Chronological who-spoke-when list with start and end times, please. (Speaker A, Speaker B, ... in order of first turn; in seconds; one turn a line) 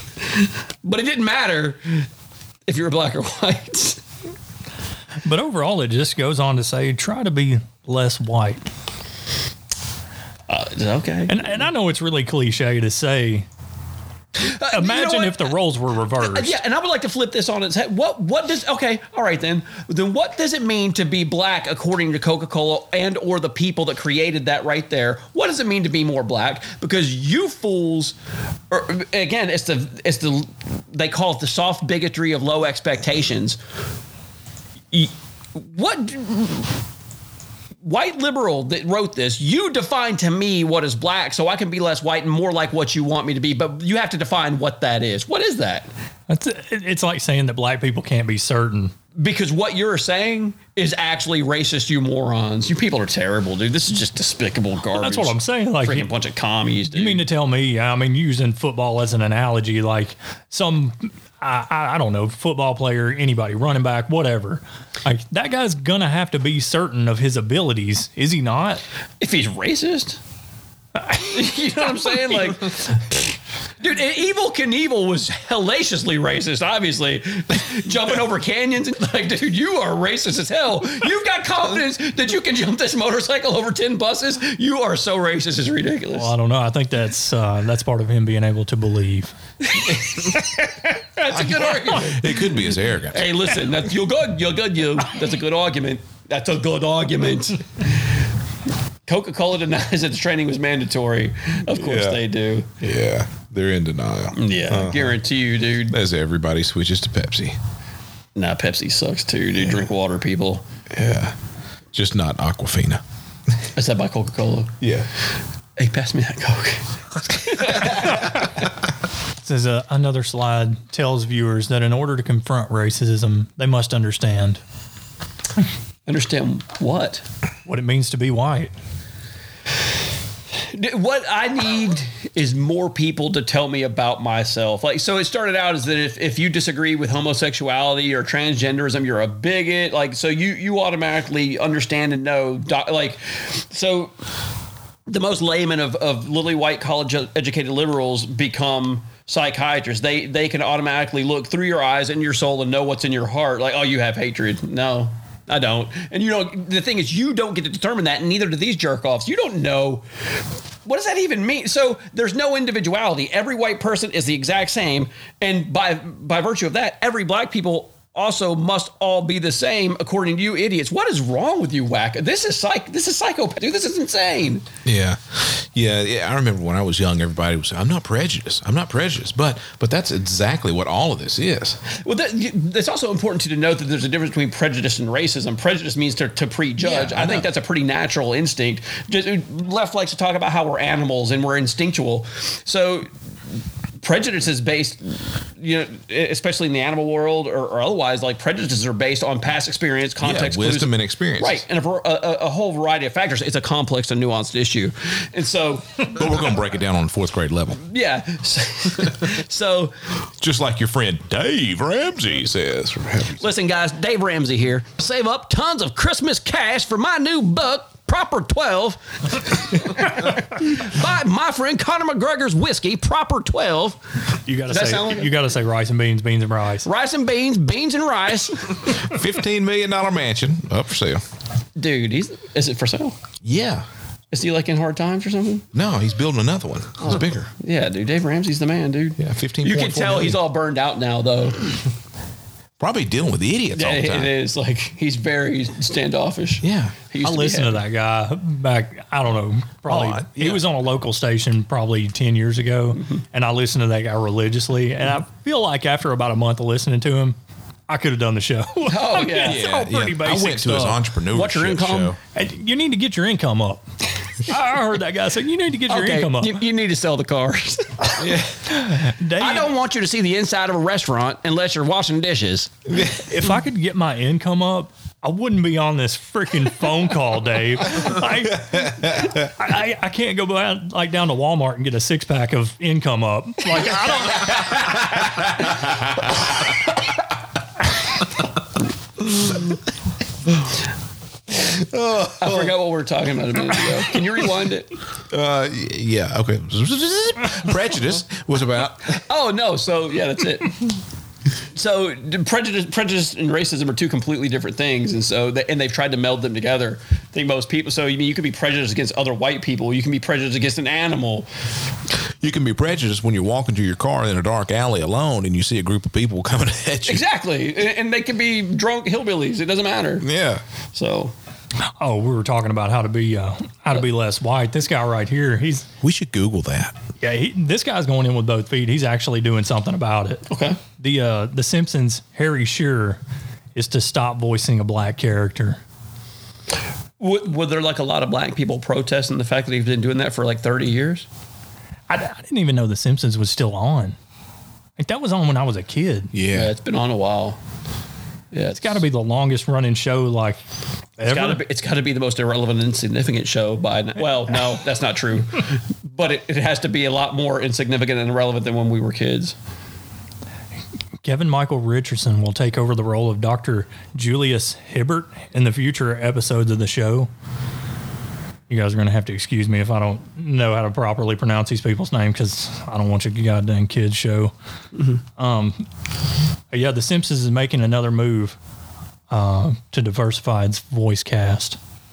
Speaker A: 0.4-2.1
Speaker A: 2.7-4.0
Speaker B: 5.2-8.6
Speaker A: 10.5-11.3
Speaker B: 11.3-13.4
Speaker A: 14.4-15.5
Speaker B: 14.7-16.5
Speaker A: 16.2-28.1
Speaker A: 28.7-33.6
Speaker A: 34.9-36.7
Speaker A: 37.8-45.9
Speaker B: 46.3-48.9
Speaker A: 49.2-57.2
Speaker B: 55.0-56.1
Speaker B: 56.9-68.8
Speaker A: 69.2-70.2
Speaker B: 71.0-72.5
Speaker A: 71.3-72.8
Speaker A: 73.8-86.3
Speaker B: 86.2-89.3
Speaker A: 89.7-90.0
Speaker A: 91.2-92.2
Speaker C: 91.3-93.3
Speaker A: 93.1-98.1
Speaker A: 99.1-102.7
Speaker C: 101.8-102.2
Speaker C: 102.8-105.2
Speaker A: 104.4-105.9
Speaker C: 105.9-107.5
Speaker A: 108.3-110.6
Speaker C: 110.9-111.3
Speaker C: 111.9-113.0
Speaker A: 113.8-114.7
Speaker C: 114.8-115.1
Speaker A: 115.8-118.2
Speaker B: 119.4-124.6
Speaker A: 126.1-127.2
Speaker B: 127.7-128.7
Speaker A: 130.7-144.1
Speaker A: 145.1-160.0
Speaker A: 160.8-174.6
Speaker C: 174.8-181.8
Speaker A: 182.0-193.1
Speaker C: 186.8-187.5
Speaker A: 194.0-206.2
Speaker C: 200.2-201.6
Speaker C: 206.1-207.8
Speaker A: 207.8-209.9
Speaker C: 210.4-213.5
Speaker A: 213.4-224.0
Speaker B: 224.5-226.9
Speaker A: 224.7-225.3
Speaker A: 226.8-228.9
Speaker C: 229.0-231.2
Speaker A: 231.8-233.2
Speaker C: 233.4-233.8
Speaker A: 234.3-235.6
Speaker C: 235.7-237.5
Speaker A: 237.0-241.7
Speaker C: 239.2-240.4
Speaker C: 242.8-244.3
Speaker A: 243.7-247.8
Speaker C: 246.6-246.9
Speaker B: 247.2-257.4
Speaker C: 249.9-250.6
Speaker B: 257.9-261.0
Speaker A: 258.9-259.6
Speaker C: 259.4-262.2
Speaker A: 261.3-262.1
Speaker B: 262.3-263.8
Speaker B: 264.5-266.6
Speaker A: 265.9-268.2
Speaker C: 268.2-268.5
Speaker B: 268.9-269.7
Speaker A: 269.4-272.9
Speaker C: 272.9-273.2
Speaker B: 273.3-284.6
Speaker C: 291.9-292.7
Speaker A: 292.4-294.9
Speaker C: 295.3-299.1
Speaker A: 299.3-300.8
Speaker A: 301.7-311.5
Speaker C: 312.4-317.2
Speaker A: 317.1-320.2
Speaker C: 320.2-320.6
Speaker A: 320.9-321.3
Speaker B: 322.0-325.9
Speaker C: 326.0-326.9
Speaker B: 327.2-330.4
Speaker A: 330.5-330.8
Speaker B: 331.0-333.2
Speaker B: 333.7-335.8
Speaker A: 337.2-341.2
Speaker B: 342.1-344.1
Speaker B: 345.0-346.3
Speaker C: 346.3-346.7
Speaker A: 346.5-347.6
Speaker A: 348.5-349.0
Speaker B: 348.8-350.6
Speaker B: 351.2-351.6
Speaker A: 351.2-359.5
Speaker B: 361.2-367.3
Speaker B: 368.7-374.5
Speaker B: 375.4-375.8
Speaker B: 376.7-378.6
Speaker B: 379.3-381.8